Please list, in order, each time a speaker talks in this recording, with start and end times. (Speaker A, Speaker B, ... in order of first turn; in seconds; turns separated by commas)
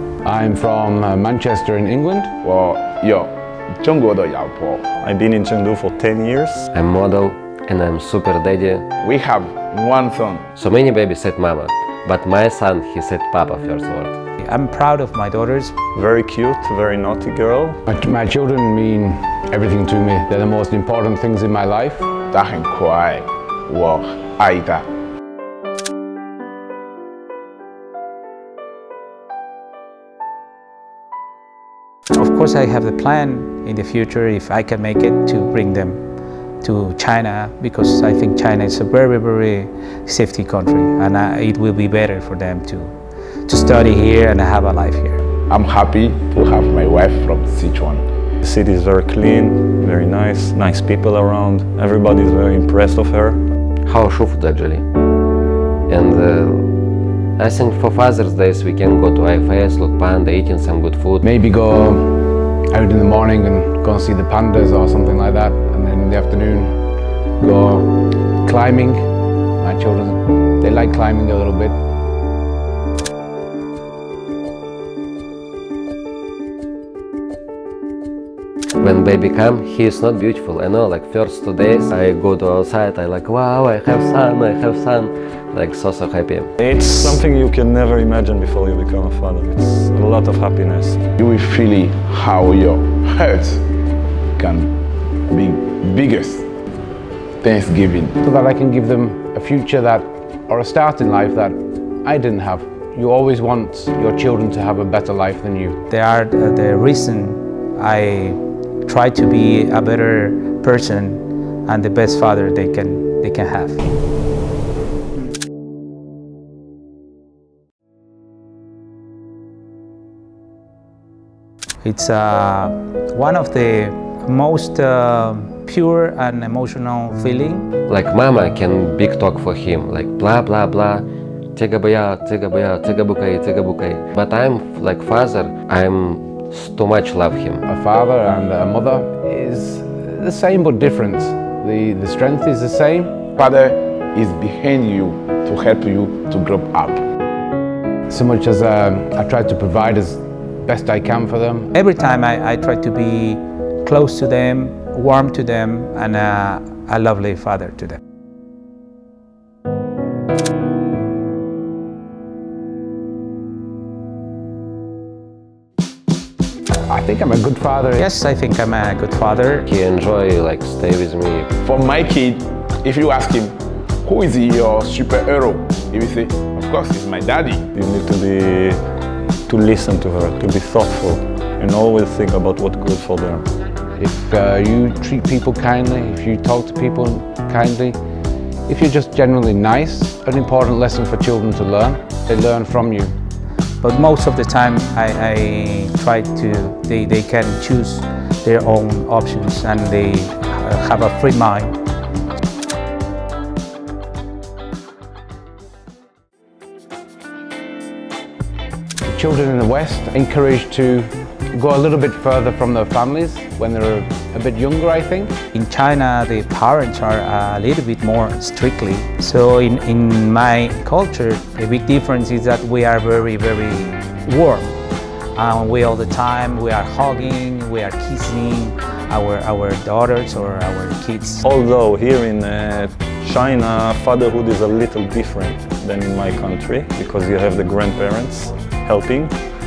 Speaker A: 0.2-2.3, Speaker B: 2.4-3.3, Speaker B: 3.8-4.8, Speaker C: 5.0-6.7, Speaker D: 6.7-8.8, Speaker B: 9.0-10.5, Speaker D: 10.6-14.1, Speaker E: 14.4-15.7, Speaker C: 15.9-17.8, Speaker A: 17.9-22.1, Speaker B: 22.3-24.9, Speaker E: 32.1-36.0, Speaker E: 36.6-42.9, Speaker E: 43.5-45.2, Speaker B: 45.5-48.0, Speaker C: 48.4-53.4, Speaker D: 53.8-54.8, Speaker D: 55.9-56.7, Speaker D: 57.4-61.2, Speaker A: 61.2-66.8, Speaker A: 67.4-69.1, Speaker A: 69.6-71.8, Speaker D: 78.8-86.5, Speaker C: 86.6-91.0, Speaker B: 91.2-93.6, Speaker B: 94.4-94.7, Speaker B: 95.3-96.5, Speaker B: 97.4-98.2, Speaker A: 98.2-105.8, Speaker E: 105.9-113.8, Speaker E: 121.8-127.7, Speaker D: 127.9-137.6, Speaker A: 137.7-143.2, Speaker B: 143.4-147.0, Speaker A: 148.1-151.7, Speaker E: 151.7-158.0, Speaker A: 166.9-168.1, Speaker E: 168.0-169.7, Speaker D: 169.7-171.5, Speaker B: 171.6-177.7, Speaker C: 177.7-178.8, Speaker C: 179.5-183.4, Speaker A: 184.0-188.0, Speaker A: 188.7-193.1, Speaker E: 193.8-201.7, Speaker A: 209.1-215.3, Speaker E: 215.5-224.8, Speaker E: 225.3-231.4, Speaker C: 231.4-239.3